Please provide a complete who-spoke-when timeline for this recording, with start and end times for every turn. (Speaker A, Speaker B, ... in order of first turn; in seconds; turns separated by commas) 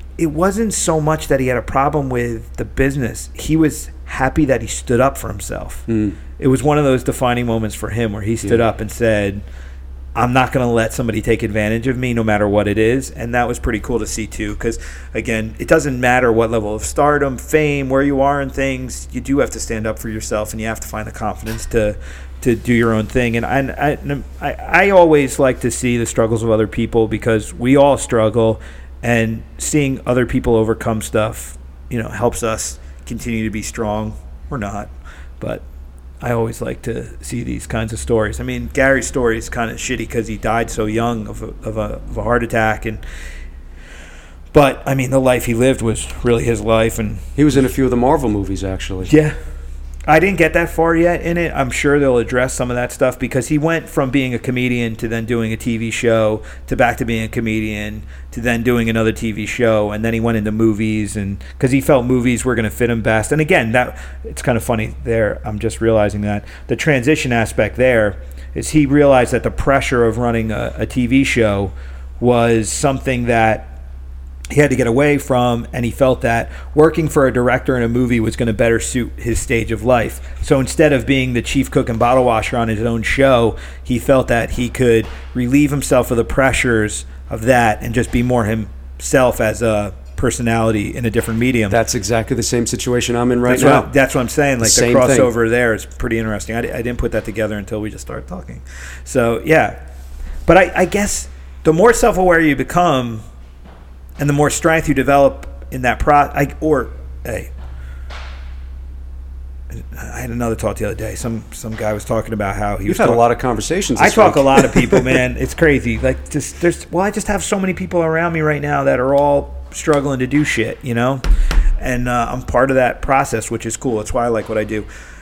Speaker A: 0.2-5.9, Speaker B: 5.9-6.2, Speaker A: 6.4-9.4, Speaker A: 10.2-35.6, Speaker A: 36.2-43.0, Speaker A: 44.5-47.3, Speaker B: 47.4-49.1, Speaker A: 49.1-49.4, Speaker A: 50.1-73.8, Speaker A: 74.5-91.8, Speaker B: 91.7-93.9, Speaker A: 93.5-99.8, Speaker B: 94.6-95.3, Speaker A: 100.5-103.2, Speaker A: 104.2-107.5, Speaker A: 109.7-113.2, Speaker B: 112.9-115.2, Speaker A: 114.0-121.2, Speaker A: 121.8-124.9